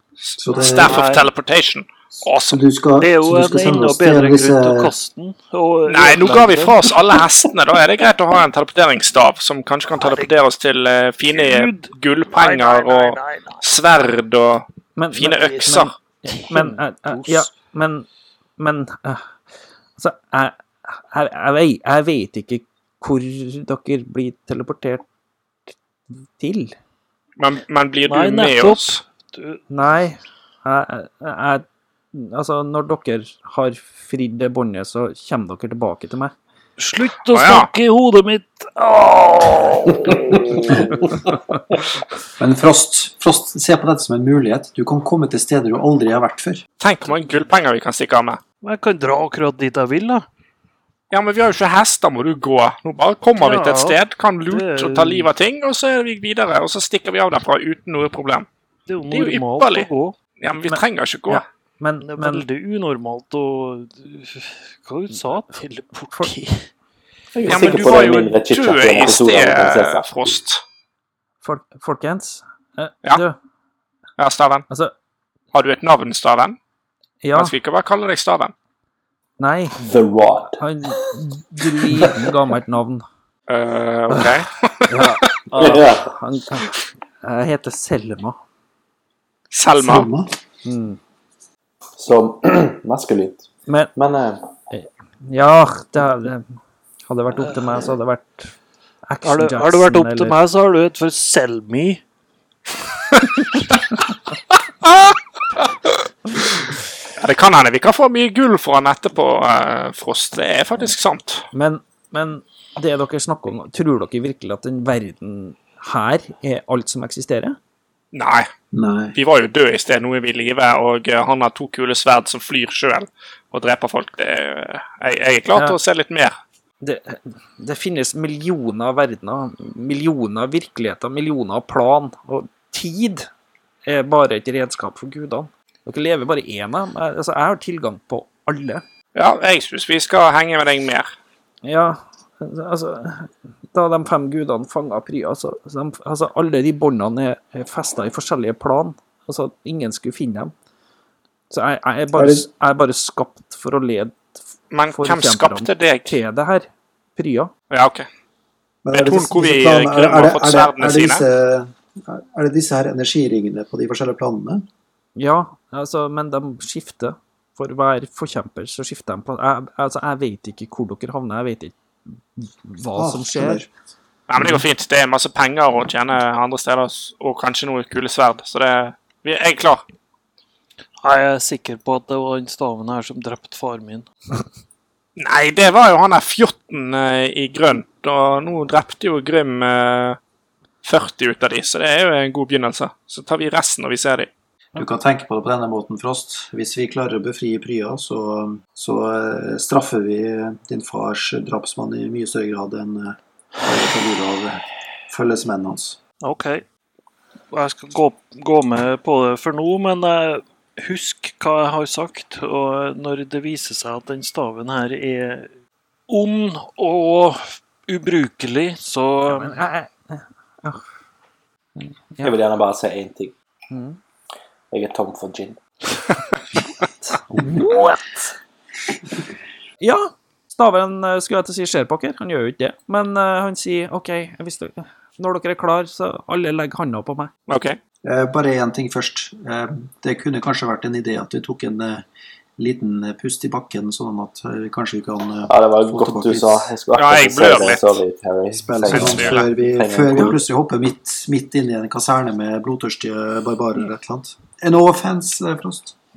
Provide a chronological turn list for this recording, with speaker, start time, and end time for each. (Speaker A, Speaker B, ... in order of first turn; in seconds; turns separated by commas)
Speaker A: 0.2-2.6, Speaker B: 0.4-1.1, Speaker C: 0.8-1.3, Speaker B: 2.5-4.9, Speaker C: 3.0-7.0, Speaker A: 5.9-15.9, Speaker C: 10.0-10.3, Speaker C: 11.3-13.6, Speaker D: 15.0-18.1, Speaker C: 16.3-17.5, Speaker D: 18.6-19.4, Speaker D: 20.0-25.0, Speaker D: 26.1-26.8, Speaker A: 27.4-29.0, Speaker C: 28.1-29.6, Speaker D: 29.7-36.3, Speaker C: 36.8-41.2, Speaker A: 37.3-37.7, Speaker B: 42.4-46.6, Speaker A: 46.8-48.4, Speaker C: 48.6-50.2, Speaker A: 51.1-58.5, Speaker C: 53.4-55.3, Speaker C: 58.9-60.1, Speaker A: 59.1-59.9, Speaker A: 60.4-61.4, Speaker D: 60.7-62.5, Speaker C: 62.0-66.7, Speaker E: 67.3-70.4, Speaker A: 67.5-70.6, Speaker C: 67.5-67.8, Speaker D: 71.4-73.4, Speaker A: 74.2-74.7, Speaker A: 75.5-76.6, Speaker D: 77.2-77.5, Speaker A: 77.4-78.5, Speaker D: 79.4-79.8, Speaker E: 79.8-81.0, Speaker D: 80.5-83.0, Speaker E: 81.9-82.3, Speaker A: 83.5-85.3, Speaker D: 84.9-86.7, Speaker E: 85.5-86.1, Speaker D: 87.2-88.4, Speaker A: 89.5-90.1, Speaker B: 89.8-90.3, Speaker D: 90.6-91.0, Speaker E: 92.0-94.5, Speaker D: 93.7-93.9, Speaker D: 94.7-98.5, Speaker C: 97.4-97.8, Speaker D: 99.1-100.4, Speaker C: 99.2-102.0, Speaker A: 107.2-111.5, Speaker D: 111.5-117.6, Speaker A: 118.1-118.5, Speaker B: 118.7-119.2, Speaker A: 119.2-126.3, Speaker D: 125.5-125.8, Speaker D: 126.8-133.3, Speaker D: 133.9-138.8, Speaker A: 139.2-141.1, Speaker D: 141.6-150.5, Speaker D: 151.5-154.3, Speaker B: 152.2-152.5, Speaker A: 154.7-156.2, Speaker D: 154.9-157.5, Speaker A: 157.7-158.1, Speaker B: 158.8-164.7, Speaker A: 158.9-161.2, Speaker D: 165.2-171.8, Speaker D: 172.4-173.7, Speaker B: 173.0-173.7, Speaker A: 174.3-179.8, Speaker C: 181.0-184.1, Speaker A: 185.2-190.2, Speaker A: 190.8-194.3, Speaker B: 194.8-206.0, Speaker C: 206.2-206.6, Speaker C: 207.5-215.5, Speaker C: 216.1-219.6, Speaker D: 219.3-220.8, Speaker D: 221.8-222.4, Speaker E: 222.2-223.3, Speaker D: 223.7-224.0, Speaker E: 224.7-225.6, Speaker D: 226.9-228.3, Speaker D: 229.8-237.3, Speaker A: 237.5-237.8, Speaker B: 238.0-242.1, Speaker B: 242.6-246.7, Speaker E: 245.5-250.4, Speaker A: 246.9-248.0, Speaker B: 247.4-247.8, Speaker B: 248.5-255.9, Speaker A: 248.9-249.4